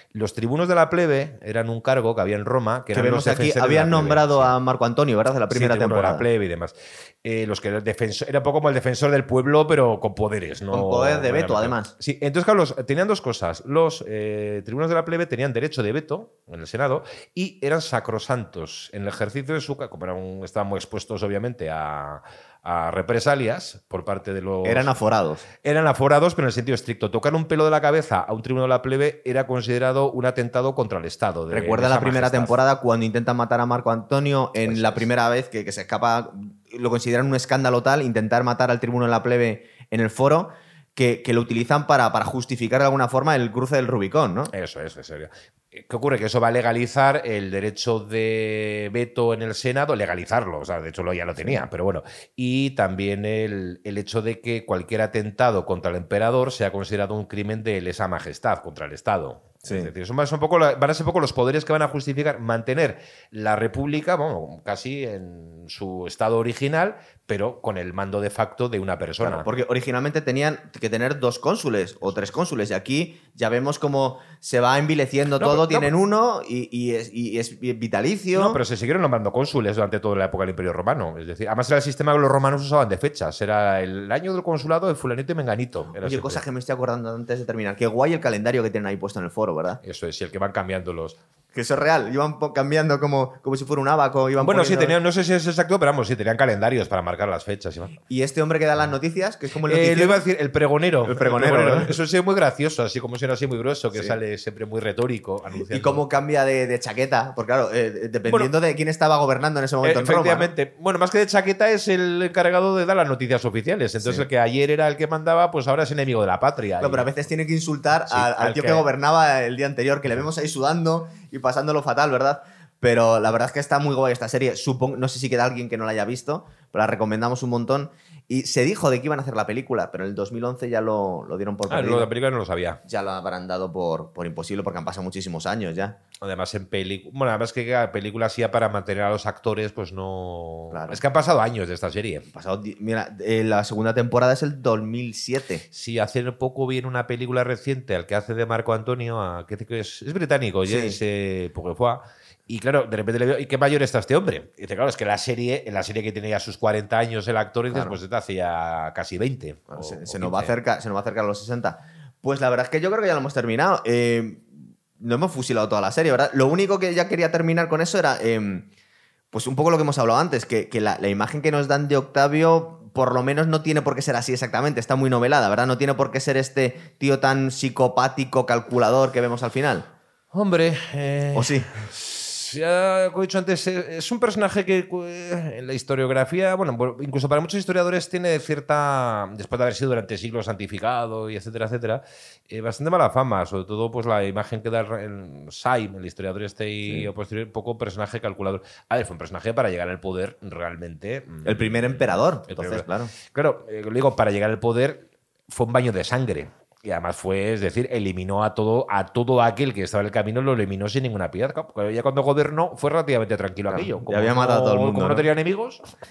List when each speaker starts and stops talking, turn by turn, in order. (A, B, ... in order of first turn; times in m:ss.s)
0:00.1-0:04.5 A
0:02.9-0:06.2 B
0:05.5-0:24.9 A
0:10.7-0:11.9 B
0:24.6-0:25.4 B
0:25.6-0:32.6 A
0:31.5-0:44.5 B
0:34.6-0:35.0 A
0:44.5-1:09.5 A
0:59.6-0:59.9 B
1:09.2-1:18.6 B
1:15.4-1:15.9 A
1:18.3-1:26.4 A
1:26.0-1:29.8 B
1:29.8-1:31.2 A
1:31.5-1:35.0 B
1:34.4-1:38.0 A
1:38.1-1:40.2 B
1:39.6-1:46.0 A
1:41.0-1:41.9 B
1:45.6-1:50.5 B
1:48.3-1:48.5 A
1:49.8-1:57.1 A
1:56.8-2:12.1 B
1:58.1-1:58.9 A
2:11.7-2:12.8 A
2:12.8-2:16.0 B
2:16.2-2:22.3 A
2:20.7-2:21.0 B
2:22.3-2:25.6 B
2:25.7-2:40.5 A
2:30.6-2:31.0 B
2:37.7-2:38.0 B
2:39.7-2:48.7 B
2:49.3-2:59.9 B
3:00.3-3:35.8 A
3:01.3-3:01.7 B
3:21.4-3:23.1 B
3:33.7-3:35.2 B